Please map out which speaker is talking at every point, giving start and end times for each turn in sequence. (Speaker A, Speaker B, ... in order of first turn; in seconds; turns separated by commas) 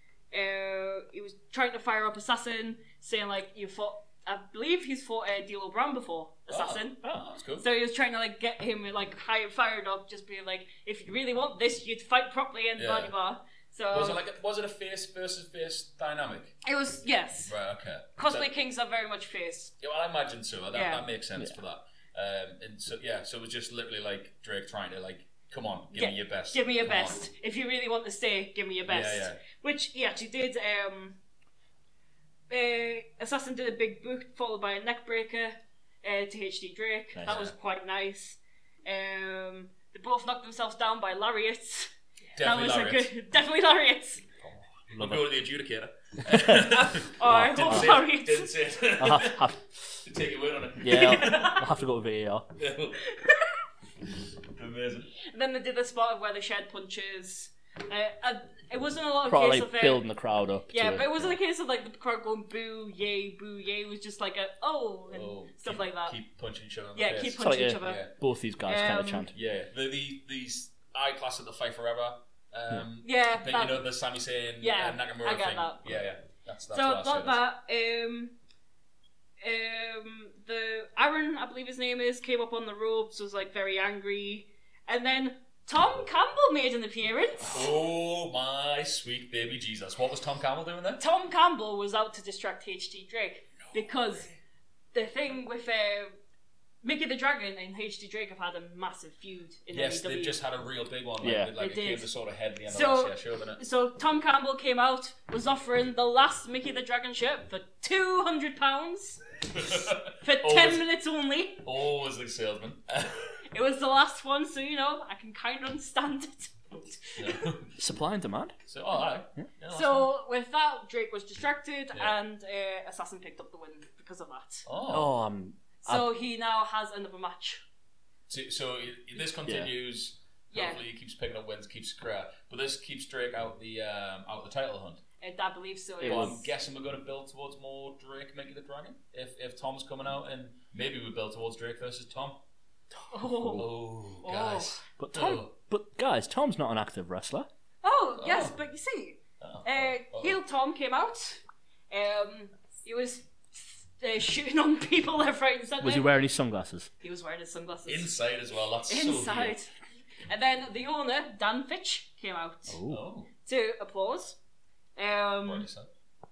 Speaker A: 0.3-7.0, Speaker B: 6.5-7.6, Speaker A: 7.6-14.2, Speaker B: 12.8-13.1, Speaker B: 13.9-16.5, Speaker A: 16.6-17.6, Speaker B: 17.4-18.5, Speaker A: 18.2-19.7, Speaker B: 19.8-27.2, Speaker A: 20.7-21.1, Speaker A: 25.9-31.2, Speaker B: 28.9-29.4, Speaker A: 32.5-44.2, Speaker B: 37.2-37.5, Speaker B: 42.4-43.1, Speaker B: 44.4-49.5, Speaker C: 44.9-45.2, Speaker C: 46.2-48.0, Speaker A: 47.2-48.5, Speaker C: 49.0-49.8, Speaker B: 50.0-51.6, Speaker C: 50.8-52.5, Speaker A: 50.9-51.6, Speaker B: 52.6-53.0, Speaker A: 53.0-53.5, Speaker B: 54.5-55.1, Speaker A: 55.2-60.1, Speaker C: 59.2-61.4, Speaker A: 60.7-66.2, Speaker B: 65.1-68.1, Speaker A: 67.0-68.0, Speaker C: 67.4-69.3, Speaker A: 68.7-69.3, Speaker B: 69.3-77.4, Speaker A: 73.0-73.9, Speaker A: 74.6-75.9, Speaker A: 76.7-78.3, Speaker A: 79.4-87.5, Speaker B: 87.5-91.0, Speaker A: 91.0-94.3, Speaker B: 93.6-94.4, Speaker A: 94.9-96.1, Speaker A: 96.8-100.4, Speaker B: 99.7-103.6, Speaker C: 101.2-101.5, Speaker A: 101.6-102.1, Speaker A: 102.7-111.6, Speaker B: 109.5-110.8, Speaker B: 111.6-113.3, Speaker A: 113.5-117.4, Speaker B: 117.2-117.7, Speaker C: 117.8-118.5, Speaker B: 118.7-120.1, Speaker A: 119.7-124.6, Speaker B: 124.7-125.1, Speaker C: 124.9-126.1, Speaker A: 125.8-127.6, Speaker B: 128.3-135.0, Speaker A: 130.5-130.8, Speaker A: 135.2-136.5, Speaker C: 136.0-136.4, Speaker B: 136.0-142.4, Speaker A: 143.1-144.8, Speaker C: 143.3-143.7, Speaker B: 143.5-145.5, Speaker C: 145.0-147.5, Speaker A: 147.8-156.1, Speaker B: 148.2-148.6, Speaker B: 149.4-150.4, Speaker C: 155.8-156.9, Speaker A: 157.0-158.1, Speaker B: 157.9-159.6, Speaker A: 158.9-159.7, Speaker A: 160.3-162.8, Speaker C: 162.7-163.0, Speaker B: 162.9-163.3, Speaker A: 163.4-164.4, Speaker A: 164.9-165.7, Speaker B: 165.4-165.9